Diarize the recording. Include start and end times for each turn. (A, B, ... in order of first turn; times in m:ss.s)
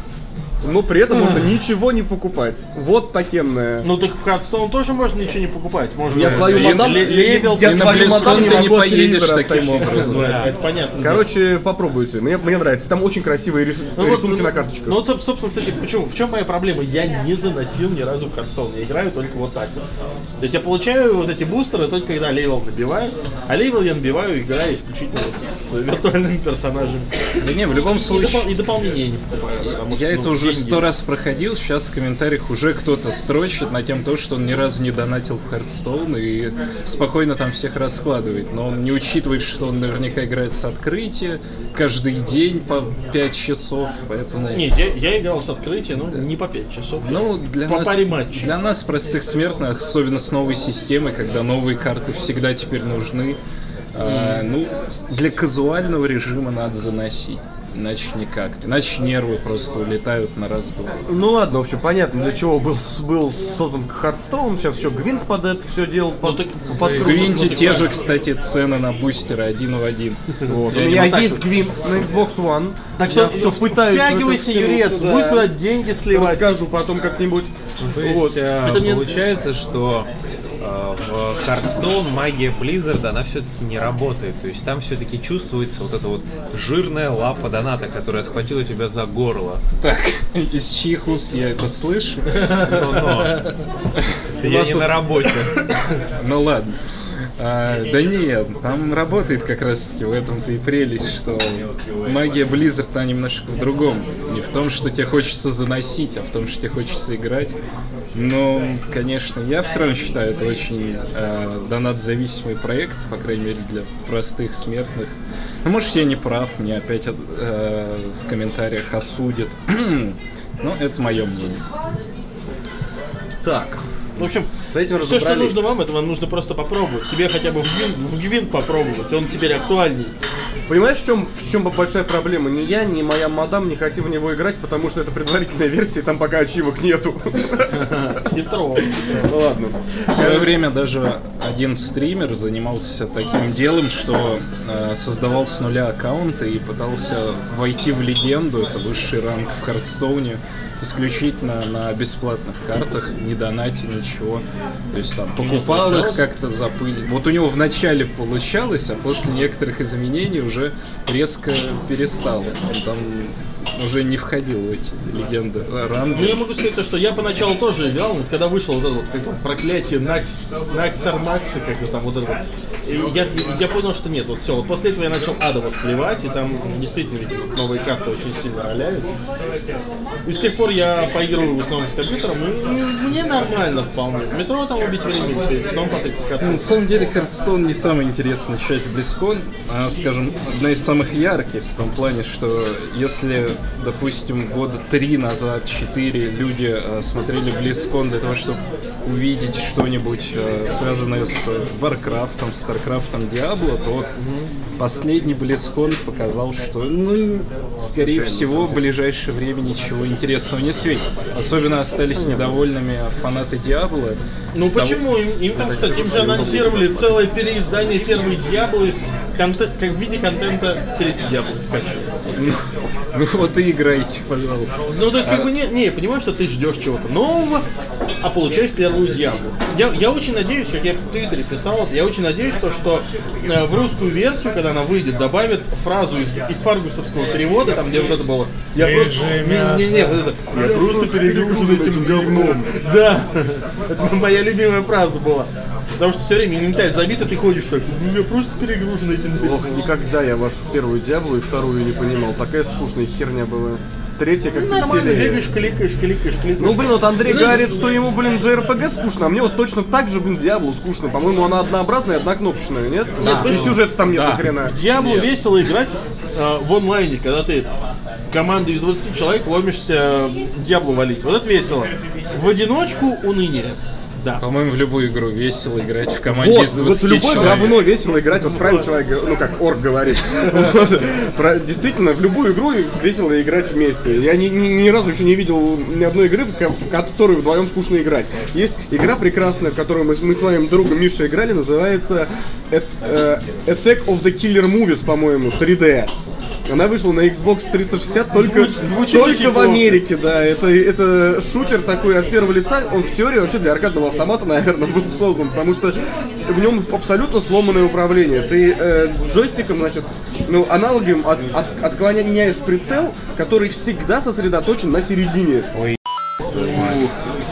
0:00.6-0:03.9 A
0:03.8-0:08.7 B
0:06.1-0:10.3 A
0:06.2-0:10.4 C
0:09.9-0:11.3 B
0:10.2-0:10.5 D
0:11.0-0:15.0 A
0:14.0-0:19.8 B
0:20.4-0:27.4 B
0:27.4-0:28.5 C
0:27.9-0:30.9 B
0:29.6-0:44.7 C
0:44.5-0:48.5 B
0:47.0-0:53.4 C
0:53.9-1:01.0 C
0:54.0-0:54.4 B
1:01.1-1:07.8 A
1:06.2-1:07.9 B
1:07.0-1:11.3 C
1:10.4-1:15.5 A
1:10.7-1:11.4 B
1:13.0-1:16.4 B
1:16.1-1:18.3 A
1:17.8-1:29.6 D
1:18.0-1:19.1 B
1:29.8-1:32.3 C
1:32.4-1:33.5 B
1:32.4-1:33.5 D
1:34.4-1:35.6 D
1:34.5-1:34.7 C
1:36.2-1:36.8 C
1:37.4-1:47.6 C
1:48.1-2:01.6 C
2:03.4-2:05.7 A
2:04.2-2:10.1 B
2:10.7-2:17.9 A
2:17.7-2:19.3 B
2:18.8-2:20.6 A
2:20.1-2:46.5 C
2:35.4-2:36.2 B
2:46.1-2:59.1 B
3:00.2-3:06.7 B
3:06.4-3:24.1 C
3:24.8-3:35.0 C
3:28.0-3:28.9 A
3:32.2-3:32.6 A
3:34.5-3:42.1 B
3:35.6-3:37.2 A
3:43.1-3:45.5 C
3:44.9-3:47.6 B
3:48.2-4:09.8 B
3:58.7-4:00.2 D
4:00.5-4:02.7 A
4:09.4-4:15.5 A
4:14.6-4:17.7 B
4:16.6-4:24.8 A
4:23.2-4:23.8 B
4:23.5-4:25.3 C
4:24.6-4:27.7 B
4:28.3-4:34.4 B
4:34.4-4:37.8 C
4:36.3-4:56.1 A
4:56.7-5:15.7 A
4:58.3-5:00.0 B
5:16.7-5:17.0 D